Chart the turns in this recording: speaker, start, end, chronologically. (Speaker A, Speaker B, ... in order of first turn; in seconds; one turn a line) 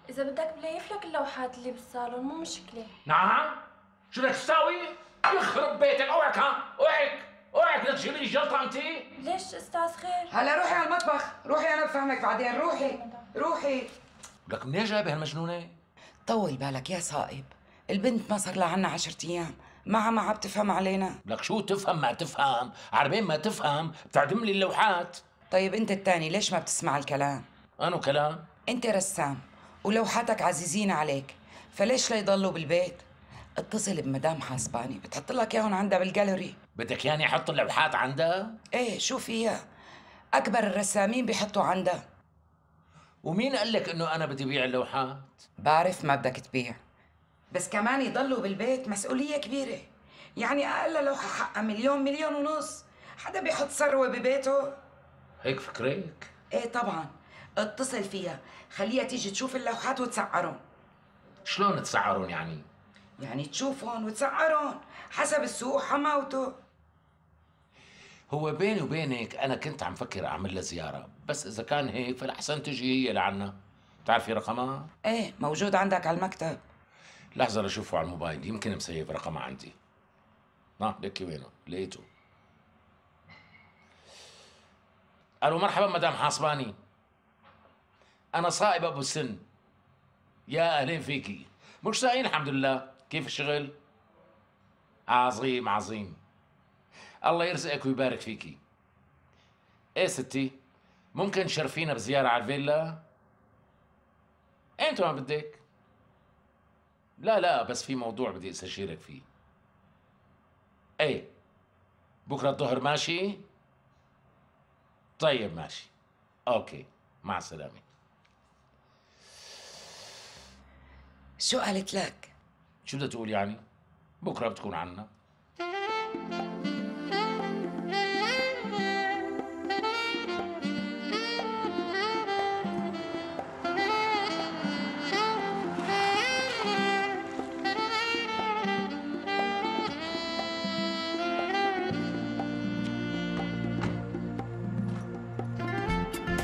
Speaker A: 0.1-2.9
Speaker B: 3.0-9.1
Speaker A: 9.2-10.3
Speaker C: 10.3-13.9
Speaker A: 12.8-13.2
Speaker B: 14.5-15.8
Speaker C: 16.2-21.2
Speaker B: 21.2-25.2
Speaker C: 25.5-27.4
Speaker B: 27.8-28.5
Speaker C: 28.7-33.0
Speaker C: 33.6-36.5
Speaker B: 36.8-38.6
Speaker C: 38.7-39.6
Speaker C: 40.3-42.0
Speaker B: 43.2-45.4
Speaker C: 45.6-46.8
Speaker C: 47.5-49.9
Speaker C: 50.4-54.8
Speaker B: 55.4-56.3
Speaker C: 56.5-60.6
Speaker B: 61.4-62.6
Speaker C: 63.2-66.5
Speaker B: 68.3-74.9
Speaker C: 75.0-76.6
Speaker B: 77.3-79.8
Speaker B: 80.8-82.0
Speaker B: 85.4-86.8
Speaker B: 88.3-89.4
Speaker B: 90.5-93.7
Speaker B: 95.1-96.2
Speaker B: 97.2-98.6
Speaker B: 100.0-100.6
Speaker B: 101.1-103.0
Speaker B: 104.8-105.6
Speaker B: 107.2-109.2
Speaker B: 111.0-111.3
Speaker B: 112.2-113.5
Speaker B: 115.2-115.9
Speaker B: 116.5-117.8
Speaker C: 121.4-122.3
Speaker B: 122.8-123.6
Speaker B: 124.2-125.1